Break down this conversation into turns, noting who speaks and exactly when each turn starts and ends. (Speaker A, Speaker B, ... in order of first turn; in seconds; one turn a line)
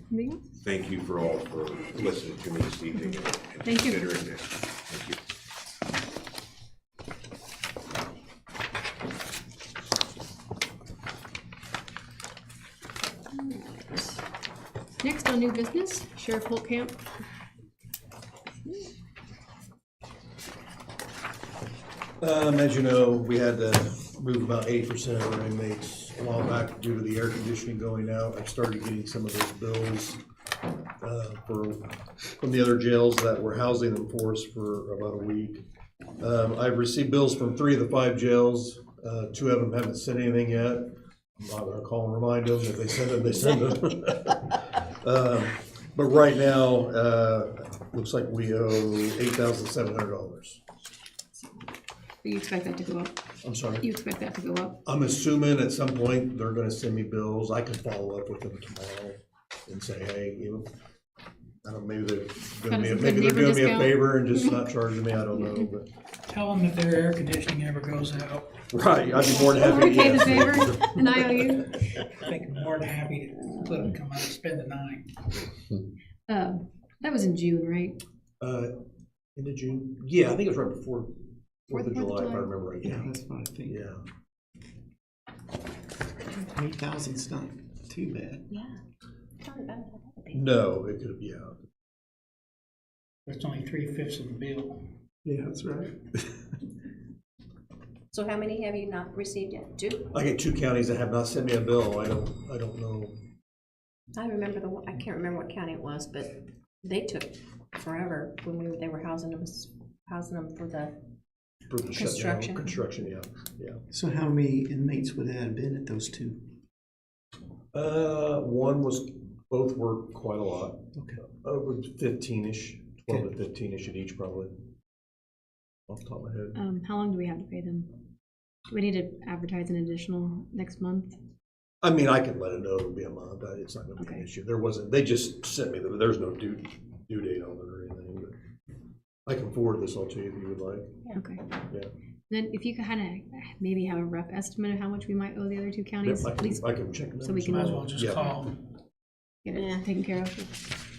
Speaker A: 0.1-0.6
Speaker B: 0.6-5.2
Speaker A: 3.6-4.2
Speaker A: 13.3-14.2
Speaker A: 15.0-17.0
Speaker C: 22.2-30.2
Speaker C: 31.0-35.6
Speaker C: 36.2-50.6
Speaker A: 52.2-53.1
Speaker C: 53.4-53.9
Speaker A: 53.8-54.8
Speaker C: 54.8-60.7
Speaker C: 61.6-65.9
Speaker A: 62.7-64.6
Speaker D: 66.3-68.5
Speaker C: 68.7-71.0
Speaker A: 69.2-72.0
Speaker D: 72.2-75.1
Speaker A: 76.3-78.0
Speaker C: 78.4-78.7
Speaker C: 79.3-81.1
Speaker C: 81.7-83.1
Speaker A: 81.7-82.5
Speaker E: 82.8-83.8
Speaker C: 83.7-84.0
Speaker E: 86.4-88.4
Speaker F: 88.5-88.8
Speaker F: 89.4-90.4
Speaker C: 90.3-91.5
Speaker D: 93.3-94.8
Speaker E: 95.2-96.3
Speaker F: 98.1-100.1
Speaker C: 100.1-103.1
Speaker F: 104.1-110.9
Speaker C: 111.7-113.8
Speaker F: 111.9-112.8
Speaker E: 113.9-116.4
Speaker C: 117.7-124.5
Speaker C: 125.9-126.6
Speaker A: 126.5-128.0
Speaker A: 128.7-131.2
Speaker C: 131.8-138.3
Speaker A: 134.0-134.2
Speaker C: 139.2-141.0
Speaker A: 141.1-141.4
Speaker A: 142.3-146.7
Speaker C: 146.0-148.2
Speaker A: 147.2-147.8
Speaker D: 147.4-148.6
Speaker A: 149.4-150.5
Speaker F: 149.5-149.8